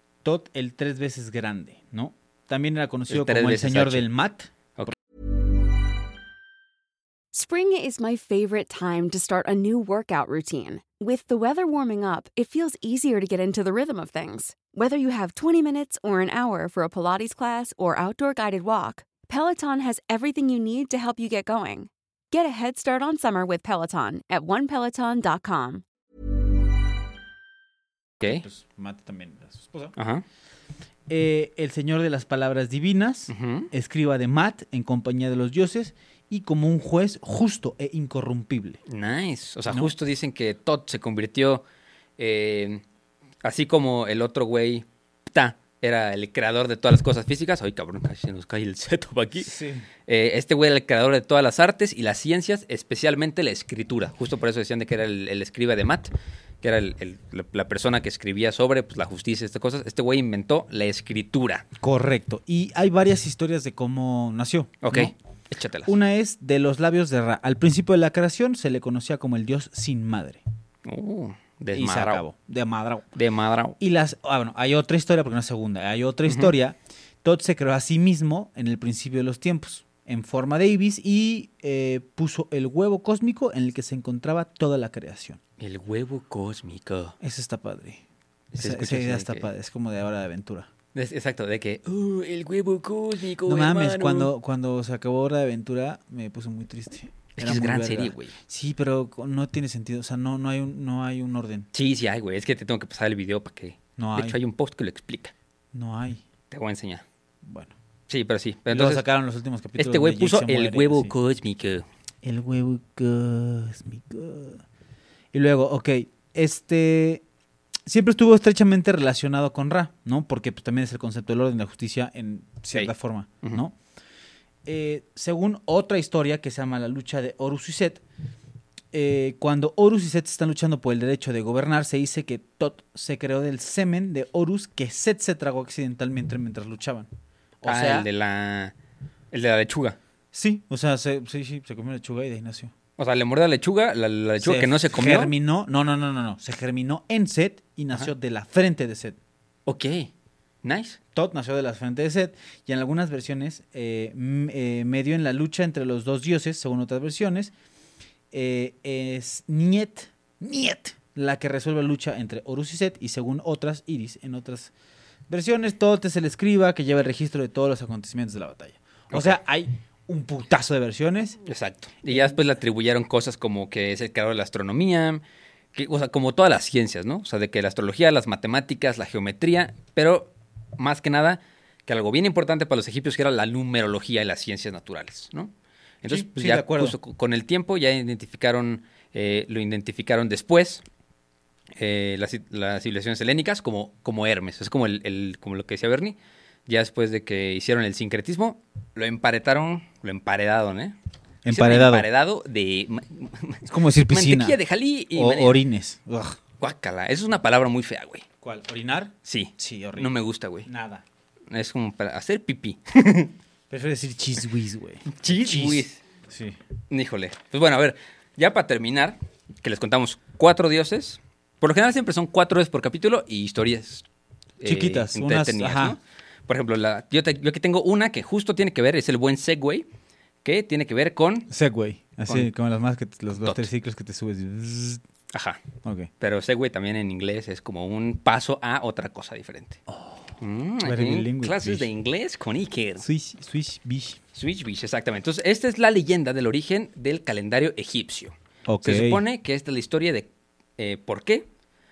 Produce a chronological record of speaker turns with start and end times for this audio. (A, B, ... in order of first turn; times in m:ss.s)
0:00.2-0:04.9 A
0:03.1-0:04.1 B
0:07.3-0:25.8 C
0:28.2-0:30.0 A
0:30.0-0:30.2 B
0:31.1-0:38.8 A
0:33.3-0:33.7 B
0:38.9-0:41.6 B
0:42.2-0:42.8 B
0:43.4-0:49.6 B
0:49.4-0:49.9 A
0:50.1-1:01.7 B
1:01.8-1:05.1 A
1:04.8-1:05.9 B
1:05.9-1:10.4 A
1:10.8-1:12.2 B
1:11.7-1:13.1 A
1:13.2-1:13.8 B
1:13.8-1:25.4 A
1:16.3-1:16.5 B
1:25.6-1:27.2 B
1:27.2-1:28.0 A
1:28.5-1:29.5 B
1:28.6-1:30.7 A
1:30.9-1:34.3 B
1:33.5-1:41.7 A
1:37.4-1:38.4 B
1:41.7-1:45.3 B
1:44.0-1:44.4 A
1:45.7-1:46.2 A
1:46.5-1:47.0 B
1:47.4-1:47.7 A
1:48.1-1:49.0 B
1:48.7-1:51.1 A
1:49.8-1:51.9 B
1:52.2-1:54.6 A
1:55.3-1:57.2 A
1:57.9-2:03.8 A
2:04.6-2:08.0 A
2:08.9-2:17.1 A
2:17.6-2:18.1 A
2:17.6-2:18.7 B
2:19.3-2:20.0 B
2:20.3-2:22.7 A
2:23.0-2:25.3 B
2:24.4-2:29.2 A
2:29.7-2:30.1 B
2:30.6-2:31.0 B
2:31.1-2:37.5 A
2:38.3-2:44.7 A
2:45.3-2:51.4 A
2:49.1-2:49.4 B
2:51.4-2:55.2 B
2:52.1-2:52.4 A
2:55.7-3:10.8 B
3:06.0-3:07.0 A
3:11.8-3:25.6 B
3:21.4-3:22.1 A
3:23.6-3:24.6 A
3:25.1-3:26.4 A
3:26.6-3:28.3 B
3:28.4-3:31.0 A
3:29.2-3:30.7 B
3:31.5-3:33.4 B
3:33.7-3:36.6 A
3:35.1-3:36.0 B
3:36.9-3:44.0 B
3:44.6-3:49.9 B
3:44.6-3:46.0 A
3:50.4-3:51.5 B
3:51.5-3:55.0 A
3:53.4-3:53.7 B
3:55.3-3:55.6 B
3:55.8-3:56.1 A
3:56.2-3:59.8 B
3:59.9-4:01.9 A
4:00.4-4:03.0 B
4:03.0-4:04.2 A
4:04.3-4:11.5 B
4:08.7-4:09.2 A